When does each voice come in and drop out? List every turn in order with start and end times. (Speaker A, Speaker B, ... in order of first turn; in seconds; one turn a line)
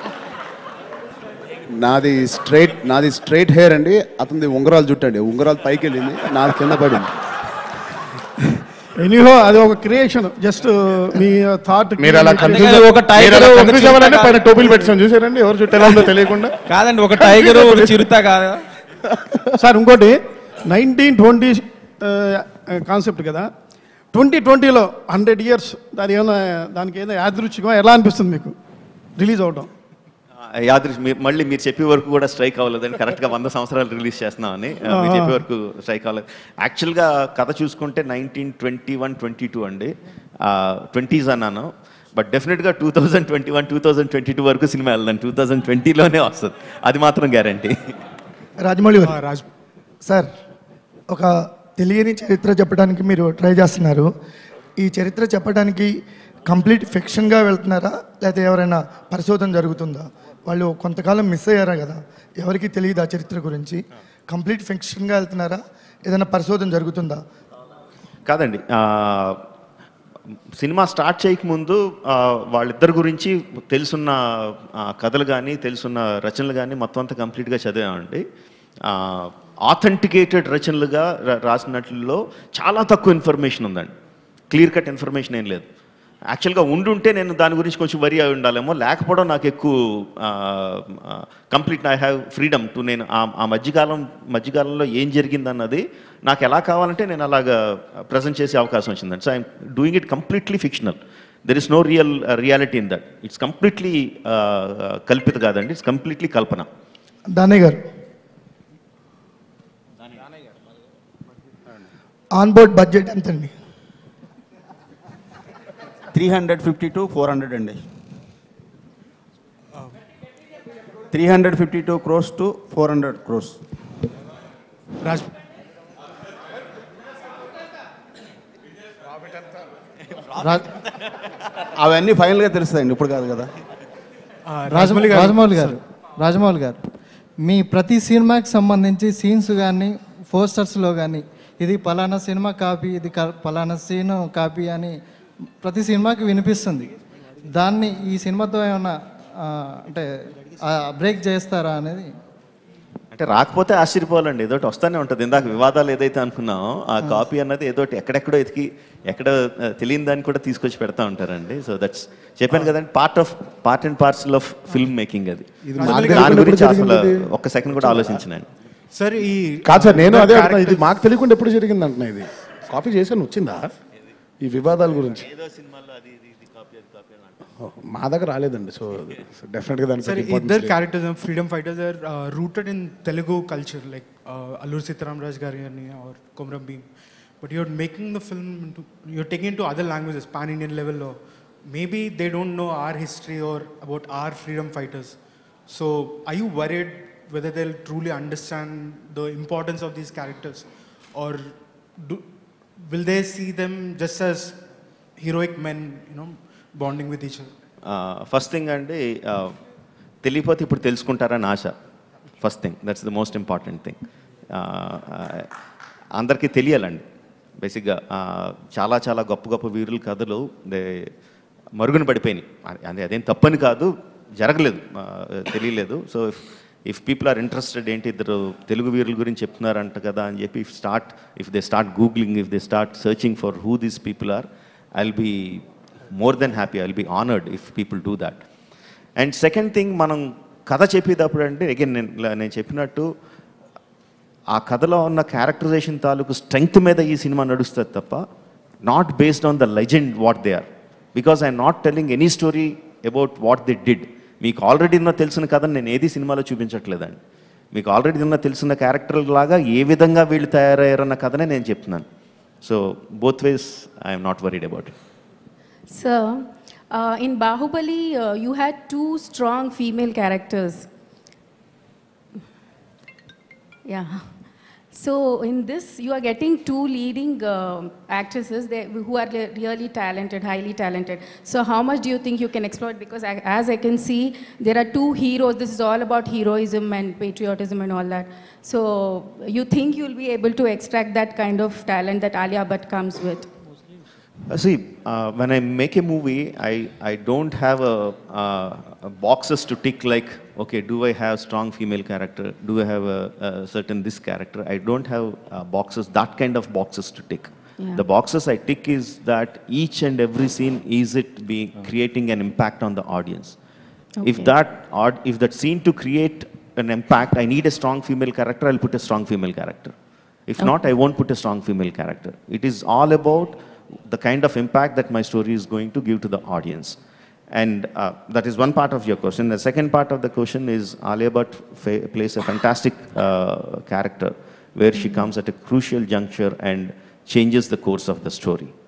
Speaker A: 1.7-7.1
Speaker B: 9.0-12.8
Speaker C: 12.0-16.5
Speaker D: 12.4-14.5
Speaker D: 16.7-18.6
Speaker B: 17.4-17.7
Speaker B: 19.6-20.1
Speaker B: 20.7-23.5
Speaker B: 24.1-28.5
Speaker B: 29.2-29.7
Speaker E: 30.4-48.0
Speaker B: 34.9-35.4
Speaker F: 48.6-49.2
Speaker G: 49.0-49.5
Speaker F: 51.1-54.1
Speaker F: 54.8-55.9
Speaker F: 56.5-67.2
Speaker E: 68.2-69.4
Speaker E: 70.6-78.2
Speaker E: 78.8-83.9
Speaker E: 84.5-85.7
Speaker E: 86.3-106.7
Speaker F: 107.3-107.8
Speaker F: 112.4-113.5
Speaker H: 116.1-117.8
Speaker H: 121.1-123.6
Speaker G: 125.0-125.3
Speaker H: 131.8-133.5
Speaker G: 134.5-135.8
Speaker I: 134.7-136.8
Speaker I: 137.4-144.9
Speaker I: 145.6-146.9
Speaker I: 147.5-152.1
Speaker E: 153.1-168.5
Speaker G: 165.7-166.3
Speaker C: 165.8-168.2
Speaker G: 168.9-170.9
Speaker C: 169.6-173.7
Speaker C: 174.4-175.3
Speaker E: 175.4-176.0
Speaker C: 177.6-180.8
Speaker G: 180.0-186.9
Speaker G: 187.4-195.2
Speaker G: 195.7-202.2
Speaker G: 202.8-204.6
Speaker G: 205.2-207.5
Speaker E: 207.8-209.6
Speaker E: 210.2-211.8
Speaker E: 212.4-214.0
Speaker E: 214.5-215.5
Speaker E: 216.1-217.0
Speaker E: 217.6-221.1
Speaker E: 221.8-238.4
Speaker E: 239.2-243.1
Speaker E: 244.5-248.2
Speaker E: 248.8-257.2
Speaker E: 257.7-262.0
Speaker E: 262.6-264.9
Speaker J: 265.9-270.9
Speaker J: 273.9-293.5
Speaker E: 294.5-313.5
Speaker J: 307.8-308.0
Speaker J: 314.2-314.5
Speaker E: 314.2-319.9
Speaker E: 320.5-327.0
Speaker E: 327.5-338.7
Speaker J: 334.9-335.3